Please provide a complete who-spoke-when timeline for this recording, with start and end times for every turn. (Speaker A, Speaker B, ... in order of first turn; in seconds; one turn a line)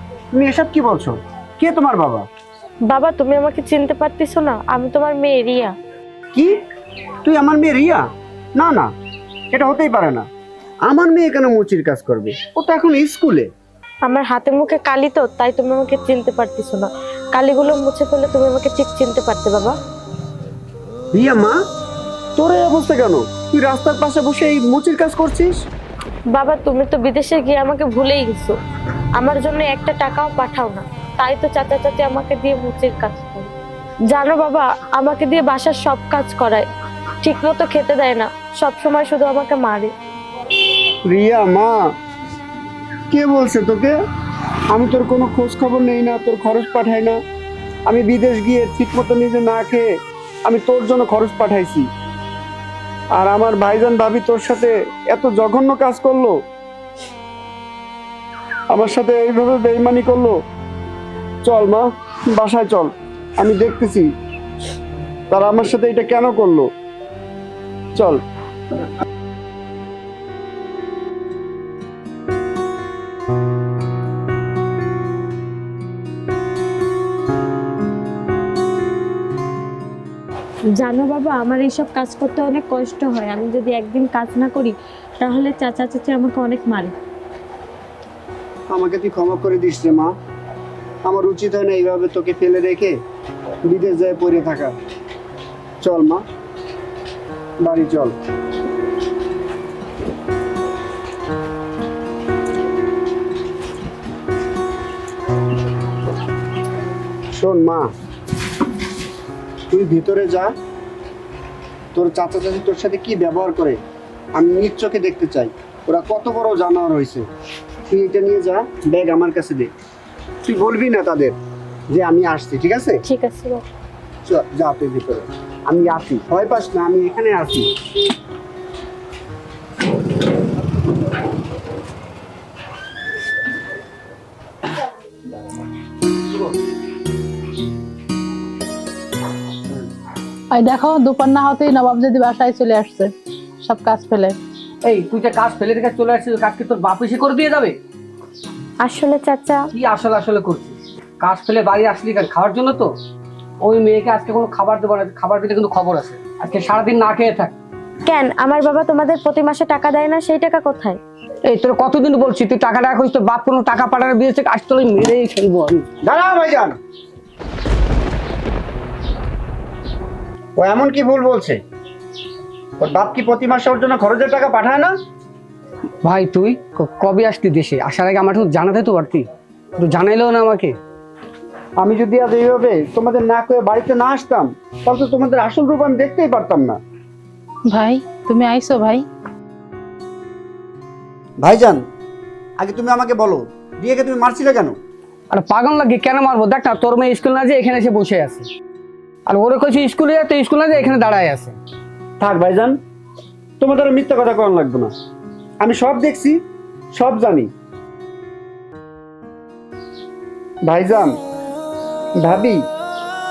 Speaker A: 0.3-2.2
Speaker B: 2.9-5.7
Speaker A: 7.2-8.0
Speaker A: 8.6-8.9
Speaker A: 9.5-10.2
Speaker A: 10.9-13.5
Speaker B: 14.1-19.8
Speaker A: 21.1-21.6
Speaker A: 22.4-25.5
Speaker B: 26.3-28.6
Speaker B: 29.2-33.5
Speaker B: 34.1-36.7
Speaker B: 37.2-39.9
Speaker A: 41.1-41.9
Speaker A: 43.1-44.0
Speaker A: 44.7-47.2
Speaker A: 47.9-49.9
Speaker A: 50.5-51.9
Speaker A: 53.2-56.4
Speaker A: 58.7-60.4
Speaker A: 61.5-64.1
Speaker A: 65.3-66.7
Speaker A: 68.0-68.2
Speaker B: 80.8-87.0
Speaker A: 88.7-90.1
Speaker A: 91.0-93.0
Speaker A: 93.7-94.7
Speaker A: 95.8-96.2
Speaker A: 97.6-98.2
Speaker A: 107.3-107.9
Speaker A: 109.7-110.5
Speaker A: 112.0-113.8
Speaker A: 114.4-117.2
Speaker A: 117.9-119.7
Speaker A: 120.5-121.4
Speaker A: 121.9-123.0
Speaker B: 123.1-123.6
Speaker A: 124.2-127.7
Speaker C: 140.5-144.4
Speaker D: 144.8-147.8
Speaker B: 148.8-149.7
Speaker D: 149.7-152.9
Speaker D: 153.6-157.5
Speaker B: 158.1-161.0
Speaker D: 161.4-165.8
Speaker A: 166.1-166.8
Speaker A: 170.6-171.6
Speaker A: 172.8-174.9
Speaker D: 176.0-179.3
Speaker D: 179.8-180.8
Speaker A: 181.8-186.8
Speaker C: 187.7-189.1
Speaker A: 191.4-191.8
Speaker A: 192.6-194.8
Speaker D: 195.3-198.5
Speaker D: 199.3-201.6
Speaker A: 202.2-202.8
Speaker A: 203.6-204.9
Speaker A: 205.6-206.4
Speaker A: 206.9-207.5
Speaker A: 210.7-211.1
Speaker A: 212.2-212.6